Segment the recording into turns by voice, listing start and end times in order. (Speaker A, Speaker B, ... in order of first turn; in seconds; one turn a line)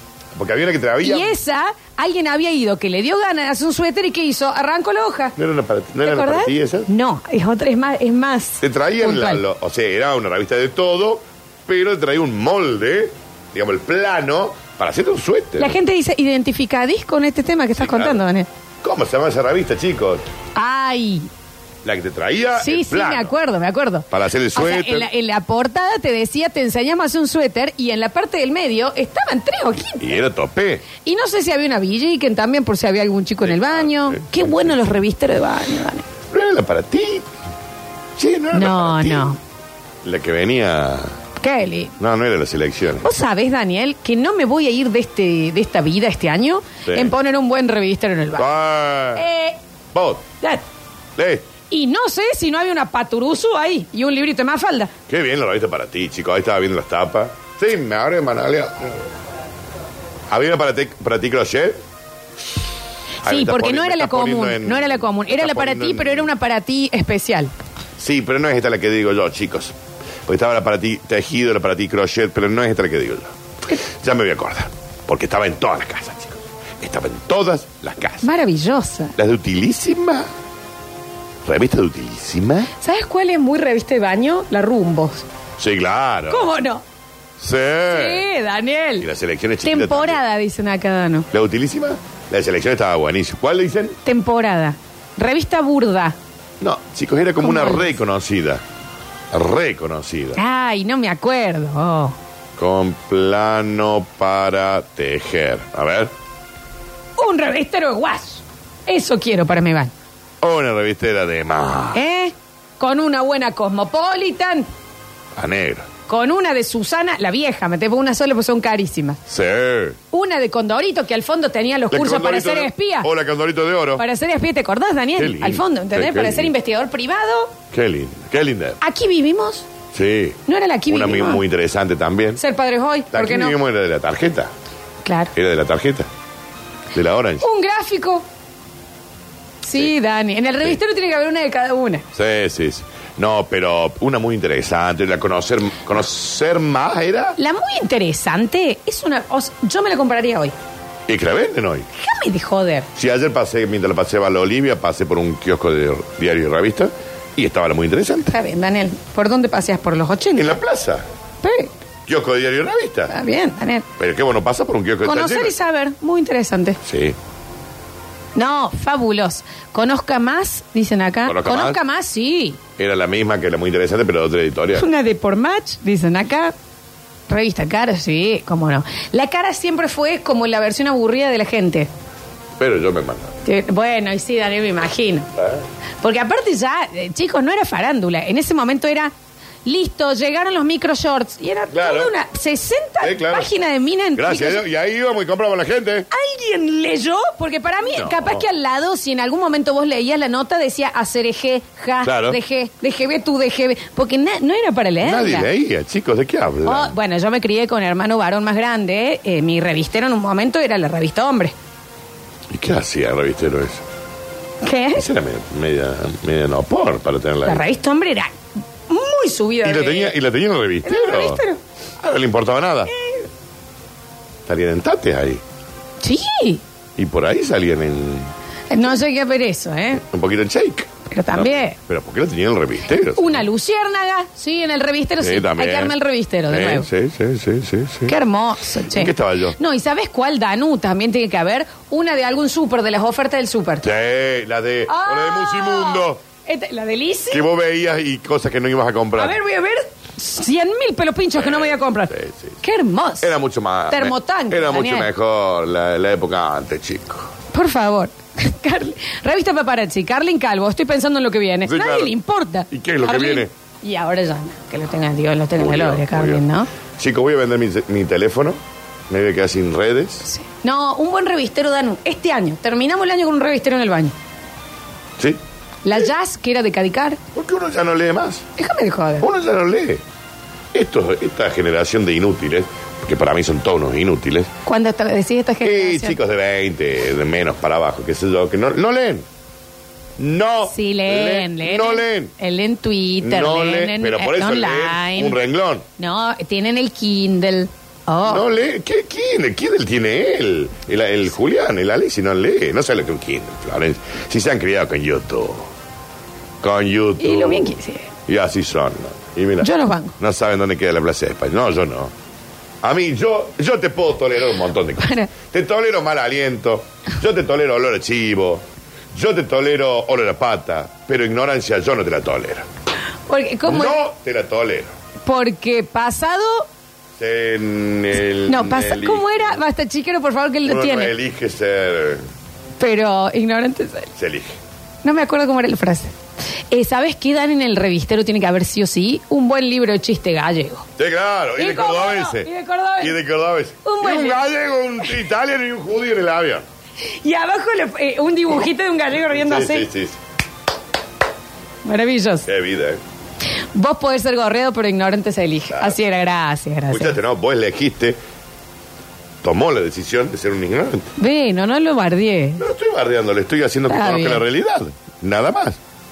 Speaker A: 0.3-1.3
Speaker B: 1.0-5.3
Speaker A: 5.4-6.9
Speaker B: 6.0-9.4
Speaker A: 8.6-15.8
Speaker B: 15.6-18.5
Speaker A: 17.8-18.2
Speaker A: 18.8-20.2
Speaker B: 20.6-21.3
Speaker A: 21.8-23.3
Speaker B: 22.6-30.1
Speaker A: 24.1-25.1
Speaker A: 30.0-30.9
Speaker B: 31.0-36.0
Speaker A: 33.4-34.9
Speaker A: 36.3-37.3
Speaker A: 38.1-39.3
Speaker B: 38.5-39.4
Speaker A: 40.0-41.1
Speaker B: 41.4-41.9
Speaker A: 42.0-43.1
Speaker B: 43.0-48.5
Speaker A: 46.8-47.1
Speaker A: 48.4-49.2
Speaker B: 49.1-49.6
Speaker A: 49.9-50.2
Speaker A: 51.1-51.5
Speaker B: 51.7-54.9
Speaker A: 55.1-59.1
Speaker A: 60.3-61.8
Speaker A: 63.2-66.3
Speaker B: 63.2-67.5
Speaker A: 68.0-78.3
Speaker B: 78.2-79.1
Speaker A: 79.2-80.3
Speaker A: 81.4-82.7
Speaker B: 82.8-85.2
Speaker A: 85.6-86.5
Speaker B: 86.3-86.8
Speaker A: 87.4-88.3
Speaker B: 87.9-89.1
Speaker A: 89.0-90.2
Speaker B: 89.6-91.3
Speaker A: 91.3-94.0
Speaker B: 94.0-96.2
Speaker A: 96.6-98.6
Speaker B: 97.4-97.9
Speaker A: 99.3-100.4
Speaker B: 100.3-102.2
Speaker A: 102.6-106.1
Speaker B: 107.2-109.9
Speaker A: 110.4-112.0
Speaker B: 111.9-114.7
Speaker A: 115.3-115.9
Speaker B: 116.1-119.2
Speaker A: 119.3-120.0
Speaker B: 120.1-123.1
Speaker A: 121.9-124.0
Speaker B: 124.0-127.5
Speaker A: 125.2-126.5
Speaker A: 127.7-128.8
Speaker B: 128.8-129.7
Speaker A: 129.9-132.4
Speaker B: 130.5-131.4
Speaker B: 132.4-133.6
Speaker A: 133.1-134.5
Speaker B: 135.0-135.3
Speaker A: 135.3-136.1
Speaker A: 136.9-137.4
Speaker B: 137.4-138.2
Speaker B: 139.6-142.0
Speaker A: 142.1-147.4
Speaker B: 147.4-150.5
Speaker A: 151.1-151.9
Speaker B: 151.9-152.9
Speaker A: 152.9-158.3
Speaker B: 158.3-160.6
Speaker A: 160.3-161.0
Speaker B: 161.4-161.7
Speaker A: 162.1-163.1
Speaker B: 163.1-163.9
Speaker A: 164.0-165.5
Speaker B: 165.0-166.8
Speaker A: 166.8-167.2
Speaker B: 168.3-172.6
Speaker A: 171.2-171.8
Speaker A: 172.8-174.9
Speaker B: 174.7-176.5
Speaker B: 177.3-181.9
Speaker A: 182.6-183.3
Speaker B: 183.4-185.3
Speaker A: 185.3-185.6
Speaker B: 186.0-189.1
Speaker B: 189.6-194.6
Speaker A: 191.7-192.1
Speaker A: 193.0-193.5
Speaker A: 194.2-196.1
Speaker B: 196.1-205.5
Speaker A: 197.9-198.4
Speaker A: 202.0-202.4
Speaker A: 205.0-206.9
Speaker B: 206.6-211.5
Speaker A: 212.5-213.8
Speaker B: 214.6-215.0
Speaker A: 214.9-217.7
Speaker B: 217.4-218.3
Speaker B: 218.9-220.2
Speaker A: 219.6-221.4
Speaker B: 220.8-221.6
Speaker A: 222.0-222.9
Speaker B: 222.9-223.3
Speaker A: 224.4-225.4
Speaker B: 226.0-226.6
Speaker A: 226.9-228.3
Speaker B: 228.7-230.0
Speaker A: 230.0-233.4
Speaker B: 231.1-231.8
Speaker B: 233.1-236.9
Speaker A: 235.2-235.9
Speaker A: 236.5-238.2
Speaker B: 238.1-243.8
Speaker A: 238.9-239.6
Speaker A: 243.8-246.2
Speaker B: 244.9-247.4
Speaker A: 247.3-249.4
Speaker B: 249.2-253.3
Speaker A: 251.4-252.6
Speaker A: 253.2-257.3
Speaker B: 253.9-255.1
Speaker B: 257.5-266.7
Speaker A: 261.6-262.1
Speaker A: 262.7-263.5
Speaker A: 265.6-266.4
Speaker A: 267.0-268.6
Speaker A: 269.1-270.3
Speaker B: 270.2-274.1
Speaker B: 275.8-277.2
Speaker A: 277.3-278.4
Speaker B: 278.6-279.3
Speaker A: 279.2-280.0
Speaker A: 280.7-284.5
Speaker B: 284.6-286.2
Speaker A: 285.6-289.2
Speaker A: 290.2-292.3
Speaker B: 290.7-295.4
Speaker A: 293.2-295.8
Speaker B: 296.0-298.4
Speaker A: 298.2-305.7
Speaker A: 306.6-307.8
Speaker B: 307.2-308.1
Speaker A: 308.3-312.1
Speaker B: 309.6-310.1
Speaker A: 312.8-322.7
Speaker B: 315.0-315.3
Speaker B: 323.3-324.0
Speaker A: 323.6-324.9
Speaker B: 325.2-326.7
Speaker A: 327.2-329.6
Speaker B: 328.4-331.1
Speaker A: 330.6-332.2
Speaker B: 332.8-334.1
Speaker A: 334.1-334.6
Speaker B: 335.0-336.1
Speaker B: 336.7-340.9
Speaker A: 341.0-346.6
Speaker B: 341.6-343.2
Speaker B: 343.8-344.4
Speaker B: 347.0-349.9
Speaker A: 349.2-350.2
Speaker B: 351.8-352.5
Speaker A: 352.4-353.0
Speaker B: 353.7-357.1
Speaker A: 355.7-356.0
Speaker A: 356.9-358.2
Speaker A: 359.4-361.1
Speaker B: 361.2-362.6
Speaker A: 362.6-365.8
Speaker B: 363.9-364.4